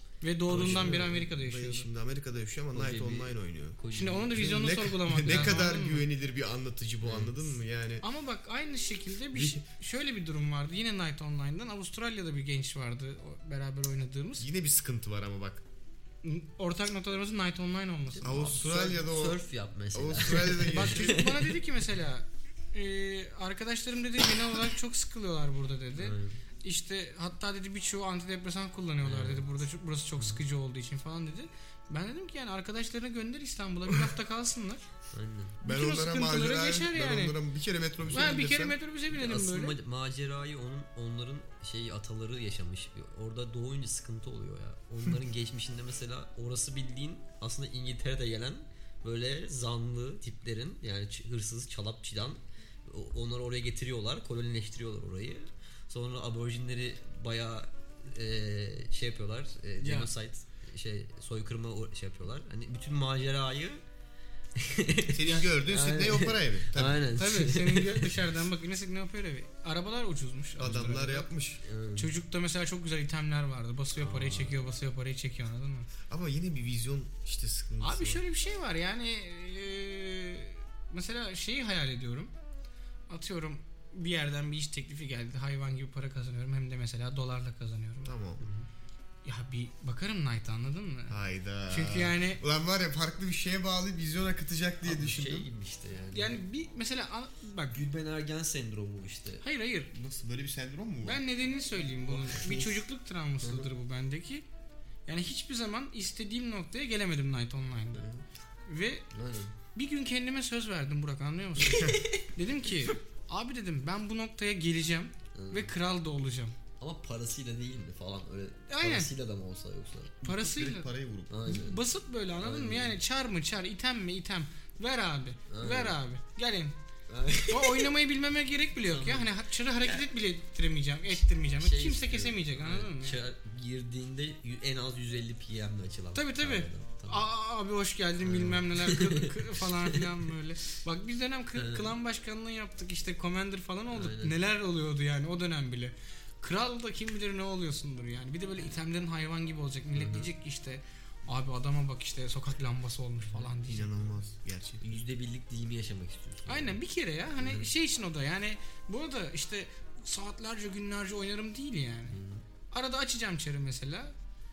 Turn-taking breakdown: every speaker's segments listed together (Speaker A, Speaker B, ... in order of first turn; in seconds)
Speaker A: 0.2-1.9, 3.9-6.0, 8.0-14.5, 16.2-19.0, 20.7-34.8, 35.6-37.4, 38.1-39.8, 59.8-60.1, 67.1-71.3, 72.0-75.9, 77.8-82.3, 83.1-88.1, 89.2-91.2, 91.7-92.4, 96.1-97.8, 99.4-99.9, 101.0-104.4, 105.1-108.0, 108.7-109.1, 109.7-116.5, 118.7-119.1, 120.2-120.9, 121.4-126.7, 127.5-133.2, 136.1-154.1, 156.5-162.2, 162.7-164.1
Speaker B: 0.5-1.2, 2.7-5.7, 7.0-7.4, 18.1-21.6, 26.0-26.4, 29.0-29.5, 30.2-30.4, 35.1-35.6, 38.0-38.3, 39.1-63.8, 64.5-68.1, 71.6-72.1, 74.0-74.5, 88.4-88.7, 94.8-96.4, 97.7-99.4, 102.1-102.8, 103.4-103.7, 107.9-108.2, 109.1-109.5, 111.6-112.2, 115.3-115.7, 116.8-120.2, 121.3-121.8, 122.4-123.0, 125.5-126.0, 127.1-127.9, 128.8-130.1, 131.6-137.3, 138.2-140.3, 141.5-141.9, 143.9-144.3, 149.9-150.3, 153.2-153.5, 154.8-156.8, 157.4-157.7, 162.1-162.4
Speaker C: 0.5-3.8, 4.3-8.0, 14.4-15.6, 18.2-21.3, 35.6-38.8, 65.1-67.0, 70.6-71.6, 76.1-78.2, 88.0-88.4, 91.1-95.5, 99.9-101.2, 120.2-121.3, 153.6-154.8